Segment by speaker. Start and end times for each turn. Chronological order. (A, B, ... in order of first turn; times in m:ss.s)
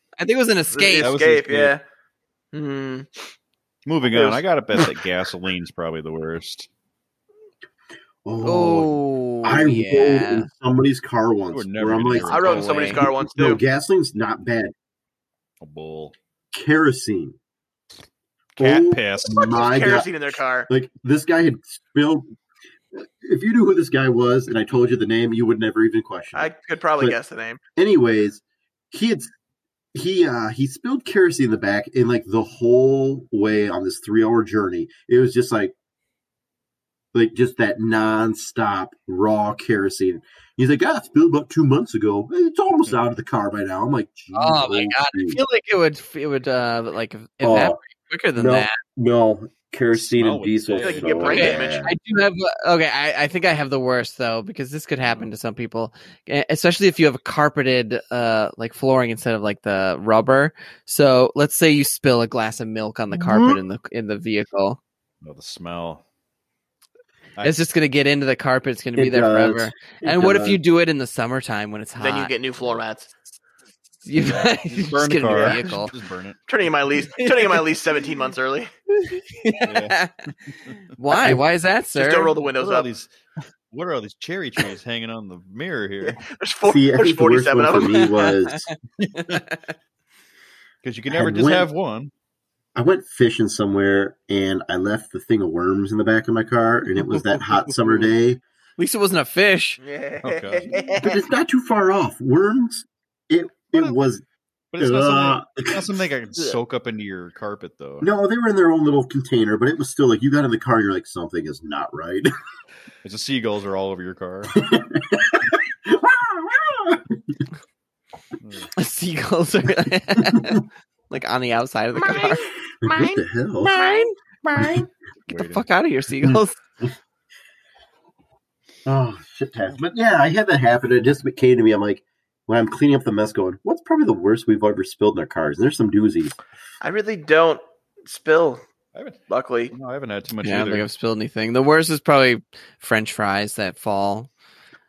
0:00.2-0:01.1 A
0:00.7-0:01.8 B
0:01.0-0:01.8 C
0:02.5-0:03.1 B
0:03.9-0:06.7 C
0:08.2-0:14.7 D
0:08.4-0:10.5 A
0:11.5-0:12.8 C
0:12.2-0:13.0 A
0:12.2-0:13.6 B
0:15.6-0:16.1 C
0:16.5-0:17.4 D
0:18.6-0:19.5 C
0:18.6-0:22.3 D
0:19.3-0:20.7 B
0:22.9-0:27.2 D
0:26.3-0:27.6 B
0:27.8-0:29.3 D
0:29.9-0:35.7 D
0:37.1-0:45.4 D
0:44.3-0:48.8 A
0:47.4-0:47.8 D
0:48.4-0:52.0 D
0:49.9-0:51.6 C
0:50.8-0:51.9 B
0:51.3-1:04.8 A
1:03.1-1:03.6 D
1:05.2-1:06.0 C
1:07.4-1:12.3 A
1:09.0-1:10.6 D
1:12.0-1:13.1 B
1:14.0-1:15.9 A
1:14.2-1:16.4 C
1:16.5-1:18.7 B
1:17.2-1:17.6 A
1:18.9-1:20.3 A
1:19.6-1:20.0 C
1:20.9-1:22.3 A
1:21.9-1:22.9 B
1:22.6-1:23.1 C
1:23.7-1:26.2 C
1:26.0-1:28.1 B
1:26.6-1:28.6 D
1:27.8-1:29.7 A
1:29.0-1:29.4 C
1:30.8-1:32.1 C
1:31.1-1:31.7 D
1:32.8-1:38.4 D
1:37.2-1:38.1 C
1:38.8-1:39.8 A
1:39.8-1:41.2 B
1:40.2-1:40.8 C
1:41.0-1:44.2 D
1:44.7-1:48.1 C
1:44.8-1:46.0 D
1:48.0-1:52.3 D
1:53.0-1:54.6 C
1:54.5-1:57.4 D
1:58.4-1:58.7 C
1:58.8-2:06.6 A
2:00.3-2:00.6 D
2:02.0-2:04.0 D
2:04.6-2:04.9 D
2:05.3-2:05.7 C
2:06.2-2:06.9 D
2:08.8-2:16.4 D
2:16.8-2:18.6 B
2:18.9-2:19.2 C
2:19.3-2:19.7 B
2:19.7-2:20.9 C
2:20.4-2:24.3 A